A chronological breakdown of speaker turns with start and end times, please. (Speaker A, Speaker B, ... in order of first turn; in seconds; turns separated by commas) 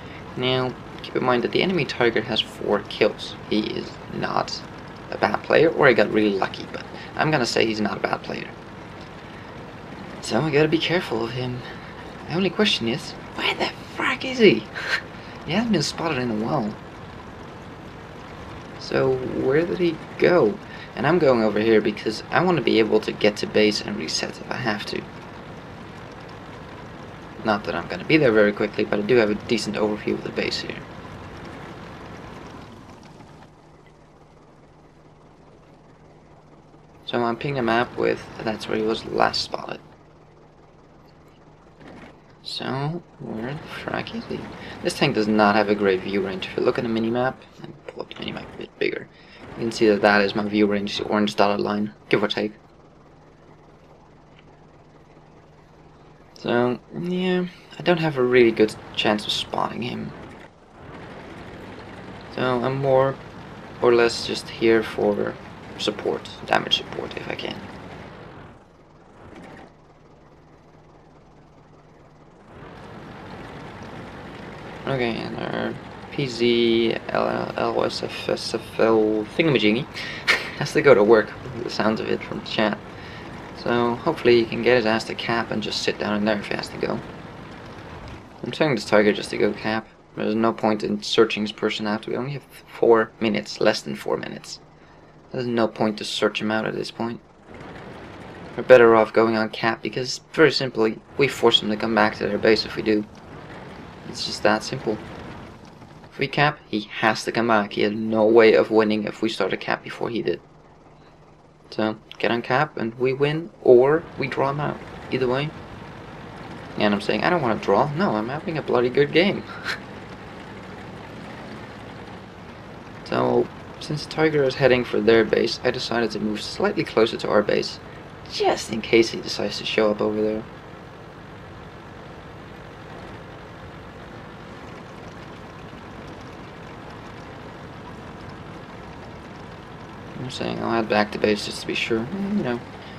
Speaker A: 0.3-8.6, Speaker A: 10.2-11.7, Speaker A: 12.3-14.7, Speaker A: 15.4-16.8, Speaker A: 18.8-25.1, Speaker A: 27.4-30.9, Speaker A: 37.0-39.8, Speaker A: 42.4-52.6, Speaker A: 56.4-60.1, Speaker A: 62.3-63.2, Speaker A: 63.8-67.7, Speaker A: 74.8-82.8, Speaker A: 83.5-87.0, Speaker A: 88.4-94.6, Speaker A: 95.3-97.2, Speaker A: 98.5-103.1, Speaker A: 104.0-105.0, Speaker A: 106.1-110.4, Speaker A: 111.7-115.5, Speaker A: 116.8-119.5, Speaker A: 123.0-130.5, Speaker A: 140.1-142.6